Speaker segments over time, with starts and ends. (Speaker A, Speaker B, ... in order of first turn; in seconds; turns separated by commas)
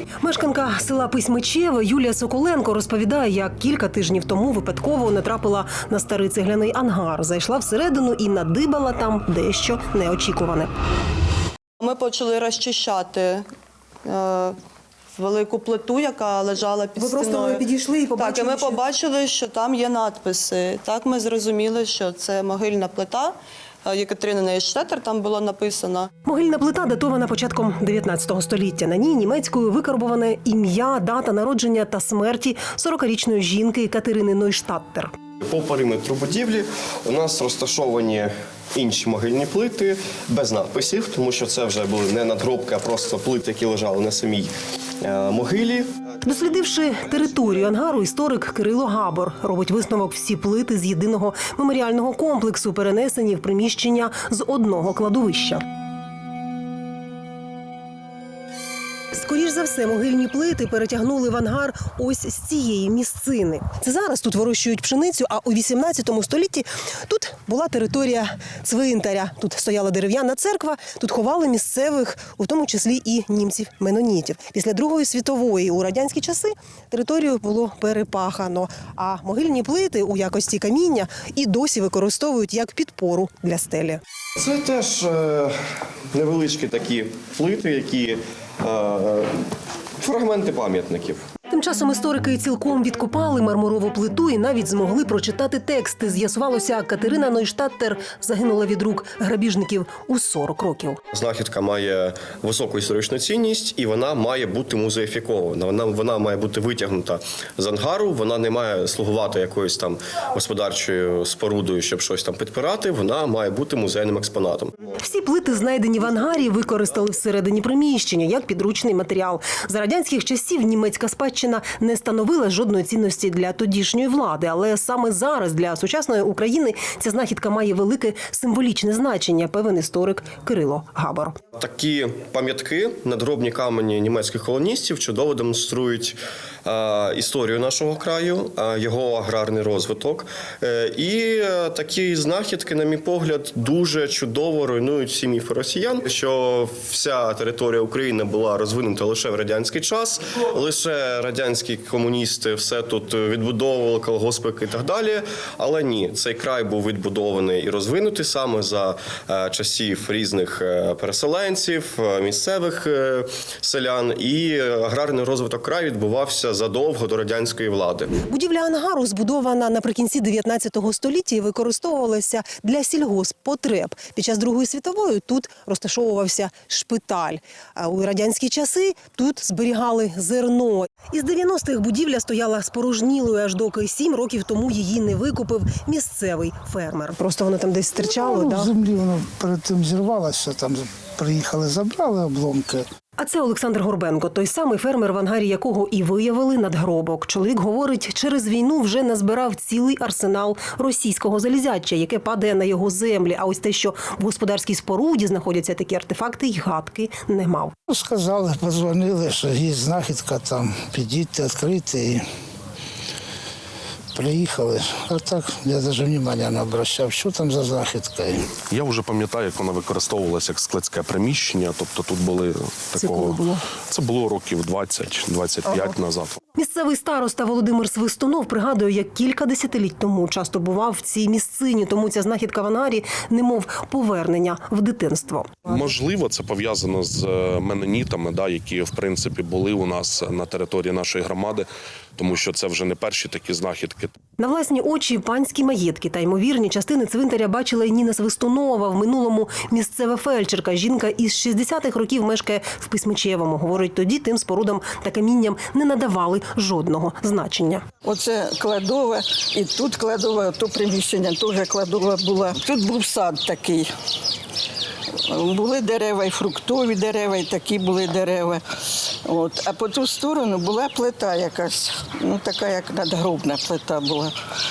Speaker A: 0.2-10.7, Speaker B: 11.8-13.5, Speaker B: 14.1-14.6, Speaker B: 15.1-17.6, Speaker A: 17.0-18.8, Speaker B: 18.2-26.1, Speaker A: 26.3-35.1, Speaker C: 35.4-44.5, Speaker C: 45.0-45.9, Speaker A: 46.2-55.6, Speaker A: 59.1-84.0, Speaker C: 84.4-85.5, Speaker C: 86.1-89.3, Speaker C: 90.0-91.3, Speaker A: 91.5-101.0, Speaker C: 101.1-114.8, Speaker A: 115.0-131.4, Speaker C: 131.6-168.1, Speaker A: 168.2-188.7, Speaker D: 188.0-192.8, Speaker A: 193.2-207.7, Speaker D: 207.9-212.2, Speaker D: 214.2-218.5, Speaker E: 218.7-226.4, Speaker A: 223.0-223.6, Speaker A: 225.7-225.9, Speaker A: 226.6-235.6, Speaker E: 235.7-244.1, Speaker A: 244.4-257.9, Speaker F: 258.0-263.9, Speaker F: 265.2-274.4